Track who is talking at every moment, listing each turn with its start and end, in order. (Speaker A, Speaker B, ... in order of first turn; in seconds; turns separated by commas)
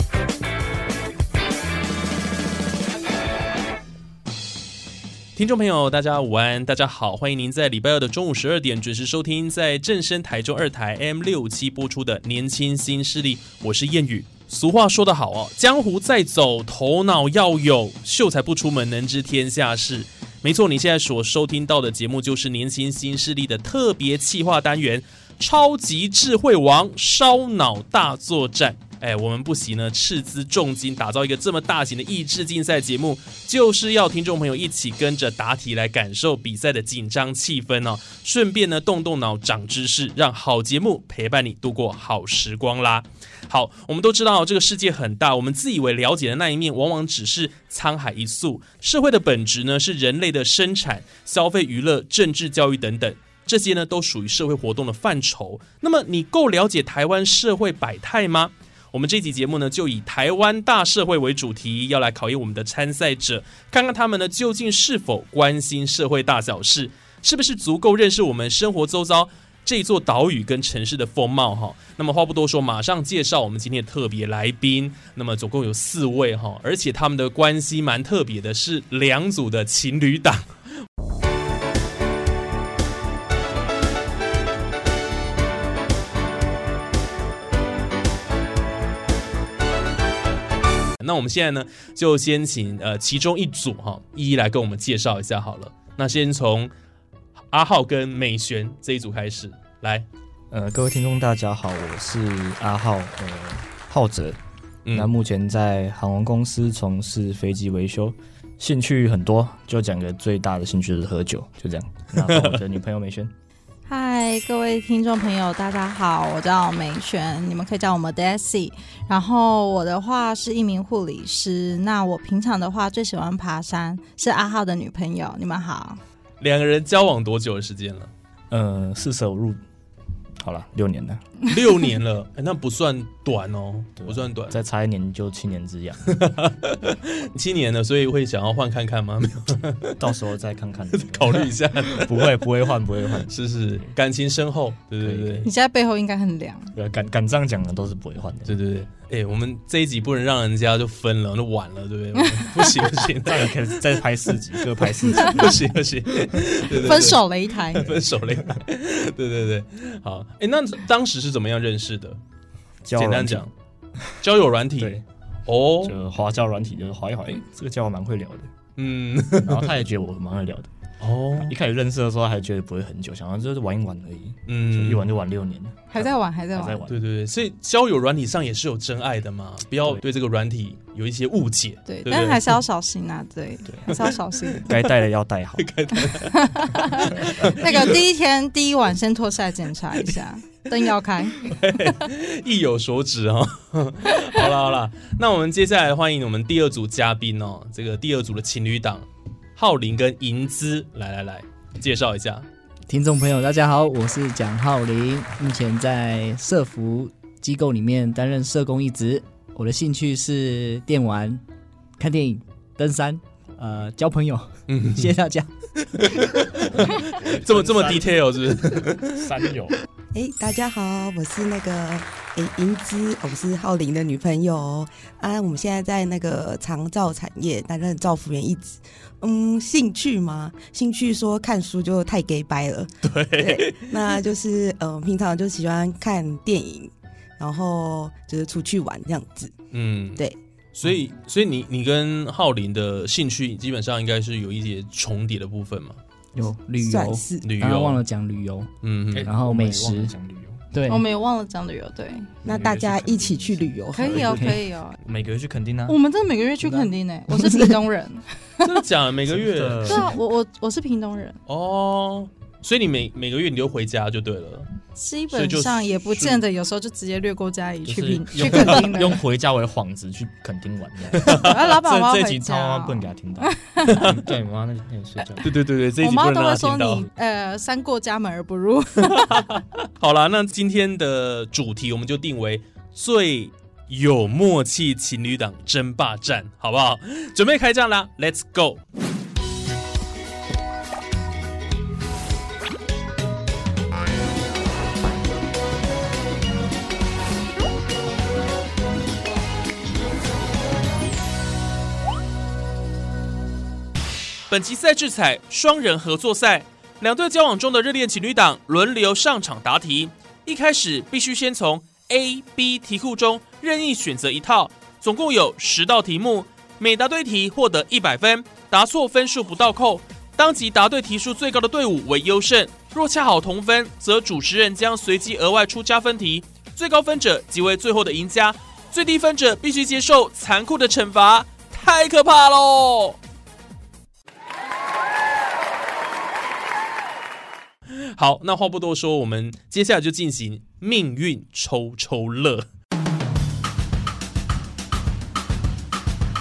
Speaker A: 5.3-80.5, Speaker A: 91.0-96.7, Speaker A: 97.5-100.1, Speaker B: 100.5-104.4, Speaker B: 104.9-113.3, Speaker A: 112.2-112.6, Speaker C: 113.9-126.0, Speaker A: 126.4-128.1, Speaker B: 128.5-129.6, Speaker B: 130.4-131.2, Speaker A: 131.5-134.6, Speaker B: 134.0-136.2, Speaker A: 136.1-140.0, Speaker B: 139.9-143.9, Speaker A: 140.9-142.3, Speaker A: 143.3-145.5, Speaker B: 145.0-145.5, Speaker C: 145.4-146.7, Speaker B: 146.7-148.6, Speaker A: 148.5-154.0, Speaker C: 152.4-152.6, Speaker B: 153.2-155.6, Speaker A: 154.8-157.2, Speaker C: 156.8-158.0, Speaker A: 157.7-162.2, Speaker B: 162.8-163.5, Speaker A: 162.9-163.5, Speaker A: 164.2-165.9, Speaker B: 164.8-165.0, Speaker B: 165.8-168.5, Speaker A: 168.8-169.8, Speaker B: 169.3-170.7, Speaker A: 171.0-171.5, Speaker B: 171.4-177.1, Speaker A: 174.5-175.1, Speaker C: 175.9-176.8, Speaker A: 176.9-182.6, Speaker C: 181.8-184.7, Speaker B: 183.6-184.0, Speaker B: 184.6-185.7, Speaker A: 185.6-187.9, Speaker C: 186.1-191.5, Speaker A: 191.4-202.5, Speaker D: 202.9-211.4, Speaker D: 212.0-215.5, Speaker A: 214.7-215.2, Speaker A: 215.8-219.4, Speaker B: 216.6-218.3, Speaker B: 218.9-219.8, Speaker E: 220.1-239.5, Speaker A: 233.0-233.9, Speaker A: 239.7-240.2, Speaker A: 240.7-246.0, Speaker D: 246.3-250.1, Speaker E: 246.8-247.5, Speaker A: 247.4-248.0, Speaker A: 248.8-249.3, Speaker B: 249.1-250.7, Speaker D: 250.7-251.0, Speaker C: 250.8-252.3, Speaker B: 252.4-256.0, Speaker E: 252.4-254.3, Speaker C: 253.9-255.0, Speaker C: 255.9-258.7, Speaker D: 256.6-256.9, Speaker D: 257.4-257.7, Speaker A: 258.6-260.1, Speaker B: 259.3-260.2, Speaker C: 259.8-261.4, Speaker A: 261.5-264.7, Speaker C: 264.9-269.2, Speaker A: 265.3-266.4, Speaker B: 267.9-275.5, Speaker A: 271.2-271.5, Speaker C: 271.3-274.0, Speaker A: 273.9-274.2, Speaker A: 275.4-277.1, Speaker C: 276.0-279.5, Speaker A: 279.2-288.8, Speaker A: 304.5-333.2, Speaker A: 337.9-342.6